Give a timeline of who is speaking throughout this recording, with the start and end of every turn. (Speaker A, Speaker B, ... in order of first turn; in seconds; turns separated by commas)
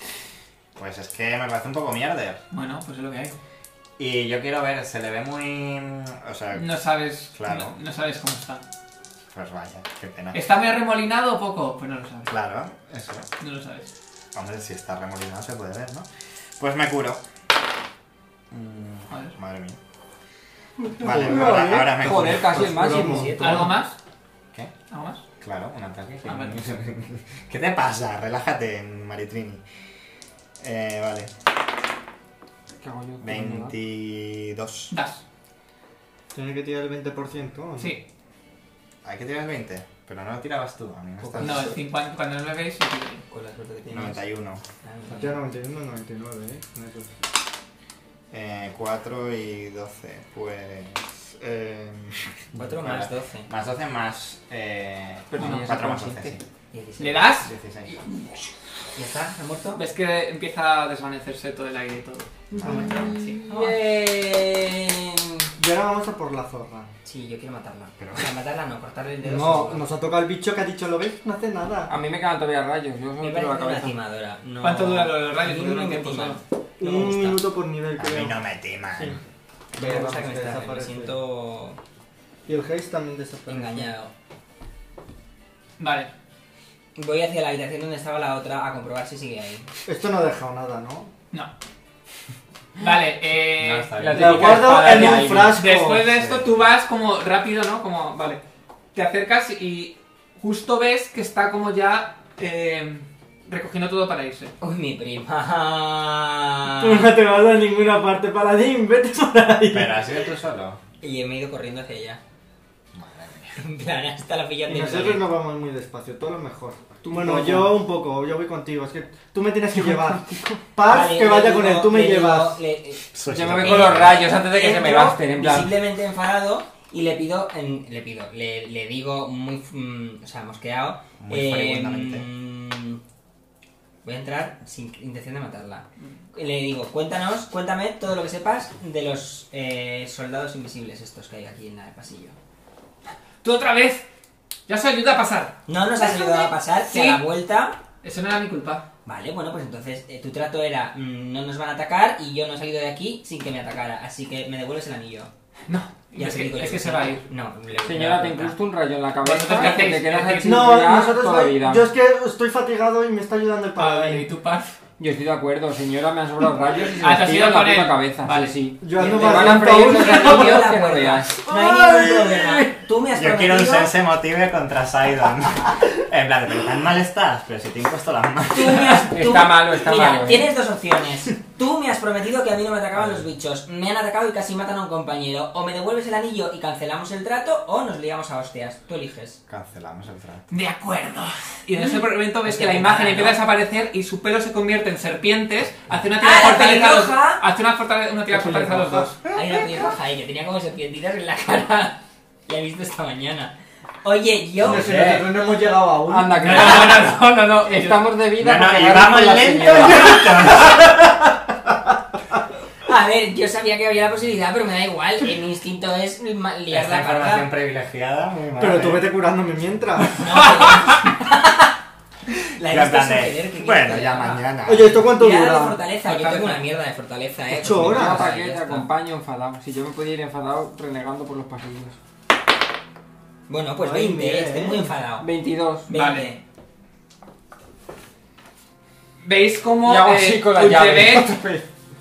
Speaker A: 0.8-2.4, Speaker B: 2.5-3.4, Speaker A: 4.0-6.7, Speaker B: 6.5-8.6, Speaker A: 7.3-7.8, Speaker A: 9.3-10.4, Speaker B: 10.3-12.3, Speaker A: 12.3-13.3, Speaker B: 13.4-13.9, Speaker A: 14.3-16.1, Speaker A: 16.6-17.2, Speaker A: 18.5-19.8, Speaker B: 19.1-19.4, Speaker C: 20.9-23.8, Speaker A: 21.0-22.8, Speaker D: 21.5-23.8, Speaker E: 22.8-23.8, Speaker B: 23.4-24.0, Speaker B: 24.9-25.2, Speaker A: 25.4-29.6, Speaker B: 26.3-26.6, Speaker A: 30.6-31.3, Speaker D: 32.8-33.8, Speaker A: 33.2-34.9, Speaker B: 34.9-35.2, Speaker C: 36.3-38.0, Speaker B: 37.8-38.0, Speaker A: 39.0-41.8, Speaker E: 41.2-41.8, Speaker B: 41.4-43.3, Speaker E: 43.3-44.2, Speaker A: 43.9-44.6, Speaker E: 44.8-45.4, Speaker C: 45.1-47.2, Speaker A: 48.3-56.4, Speaker E: 52.5-53.5, Speaker D: 55.3-56.4, Speaker B: 55.4-55.8, Speaker E: 56.7-57.4, Speaker B: 57.0-57.5, Speaker A: 57.4-58.0, Speaker E: 59.0-59.8, Speaker B: 59.7-63.4, Speaker A: 62.5-63.1, Speaker E: 62.6-64.7, Speaker D: 62.6-65.5, Speaker C: 65.6-66.9, Speaker E: 67.0-69.8, Speaker A: 68.0-68.3, Speaker C: 69.2-71.9, Speaker D: 71.9-73.9, Speaker E: 73.2-77.5, Speaker B: 74.6-76.4, Speaker C: 76.8-79.2, Speaker A: 78.0-79.2, Speaker C: 79.8-81.2, Speaker E: 79.8-81.8, Speaker C: 82.5-83.9, Speaker E: 83.5-84.1, Speaker B: 85.8-86.1, Speaker E: 87.0-89.7, Speaker C: 89.9-91.1, Speaker B: 92.8-98.4, Speaker A: 93.6-94.8, Speaker D: 94.0-95.6, Speaker C: 94.2-96.0, Speaker A: 96.0-96.5, Speaker B: 98.9-104.5, Speaker E: 104.6-107.2, Speaker C: 106.8-110.0, Speaker A: 109.7-110.8, Speaker E: 111.0-112.2, Speaker A: 112.9-113.6, Speaker E: 113.6-115.3, Speaker C: 114.7-122.6, Speaker D: 117.0-117.8, Speaker D: 119.8-120.6, Speaker E: 120.9-133.0, Speaker A: 123.1-124.2, Speaker D: 123.3-125.7, Speaker A: 131.2-132.3, Speaker E: 134.0-142.4, Speaker B: 143.4-144.1, Speaker B: 144.7-147.2, Speaker E: 145.7-147.8, Speaker B: 148.0-148.8, Speaker E: 149.1-155.3, Speaker B: 155.7-157.2, Speaker E: 156.2-158.6, Speaker D: 157.8-161.9, Speaker B: 159.2-160.8, Speaker C: 160.4-164.3, Speaker B: 163.8-164.8, Speaker D: 165.0-171.5, Speaker B: 167.0-168.7, Speaker C: 168.8-170.7, Speaker E: 168.9-173.9, Speaker B: 169.8-170.7, Speaker C: 171.5-172.8, Speaker A: 173.1-179.4, Speaker E: 178.5-189.4, Speaker D: 179.1-180.5, Speaker A: 182.9-183.3, Speaker A: 189.5-190.5, Speaker B: 190.5-199.2, Speaker E: 191.9-193.4, Speaker E: 196.2-197.4, Speaker C: 198.3-199.1, Speaker E: 199.3-205.1, Speaker A: 204.6-205.4, Speaker C: 204.6-206.7, Speaker D: 206.1-210.2, Speaker B: 206.4-208.1, Speaker A: 208.4-210.9, Speaker E: 212.8-217.5, Speaker A: 216.7-219.1, Speaker C: 218.6-220.2, Speaker E: 220.2-221.8, Speaker E: 222.6-228.9, Speaker A: 222.6-225.0, Speaker C: 224.7-225.8, Speaker B: 226.0-226.7, Speaker C: 227.5-228.3, Speaker D: 227.6-232.0, Speaker E: 233.5-235.3, Speaker C: 233.8-234.9, Speaker D: 235.2-235.9, Speaker B: 235.9-236.3, Speaker E: 235.9-236.4, Speaker B: 239.2-241.4, Speaker D: 239.8-241.7